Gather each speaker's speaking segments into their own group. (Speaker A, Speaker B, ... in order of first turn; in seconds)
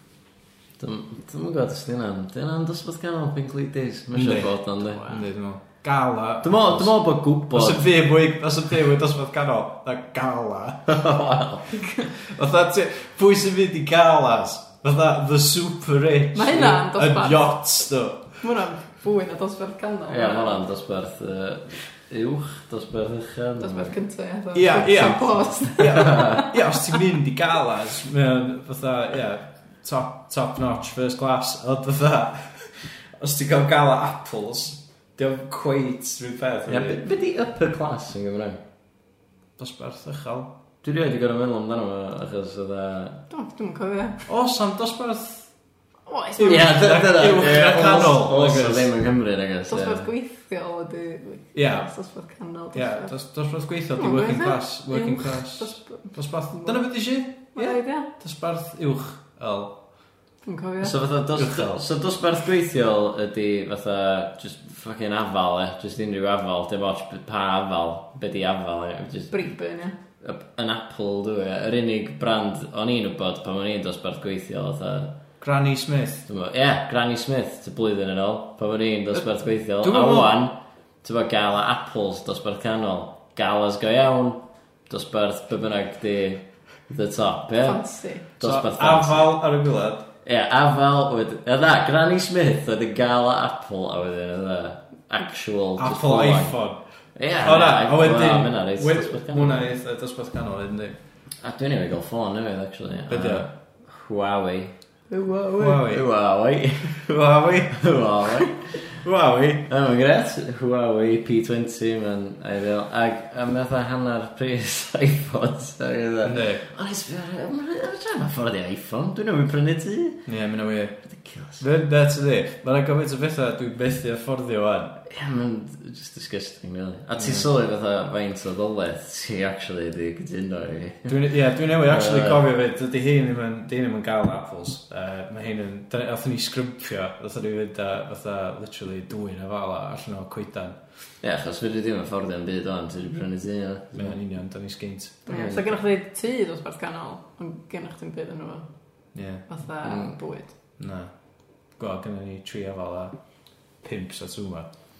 Speaker A: 0.8-5.1, 6.4-7.8, 10.9-11.7, 20.1-23.9, 25.8-26.4, 36.7-38.6, 40.8-43.2, 46.4-50.1, 60.8-69.5, 70.2-75.1, 76.3-89.3, 90.2-96.6, 97.1-99.7, 101.4-104.7, 105.8-107.0, 107.7-109.0, 109.7-120.2, 121.0-121.6, 125.0-132.4, 141.2-144.1, 145.3-145.7, 149.8-150.2
Speaker B: 4.1-6.9, 7.5-11.0, 12.1-18.4, 24.5-37.0, 39.6-40.5, 44.2-45.5, 46.4-48.9, 51.5-51.9, 52.7-59.8, 61.3-61.8, 75.4-76.2, 79.8-80.4, 88.4-90.0, 95.8-96.8, 97.4-101.0, 103.1-103.5, 105.6-106.0, 107.0-107.8, 109.0-109.7, 116.2-116.6, 120.3-124.9, 127.2-127.5, 131.1-140.8, 143.9-145.3, 149.1-149.4, 150.8-151.1, 151.7-153.2, 153.8-154.7
Speaker C: 11.7-12.1, 16.3-17.6, 18.4-20.6, 23.6-26.9, 43.3-44.2, 46.1-46.7, 49.7-53.1, 54.0-58.1, 60.4-60.9, 69.3-70.0, 87.6-88.2, 105.1-105.8, 145.2-148.7, 149.4-150.5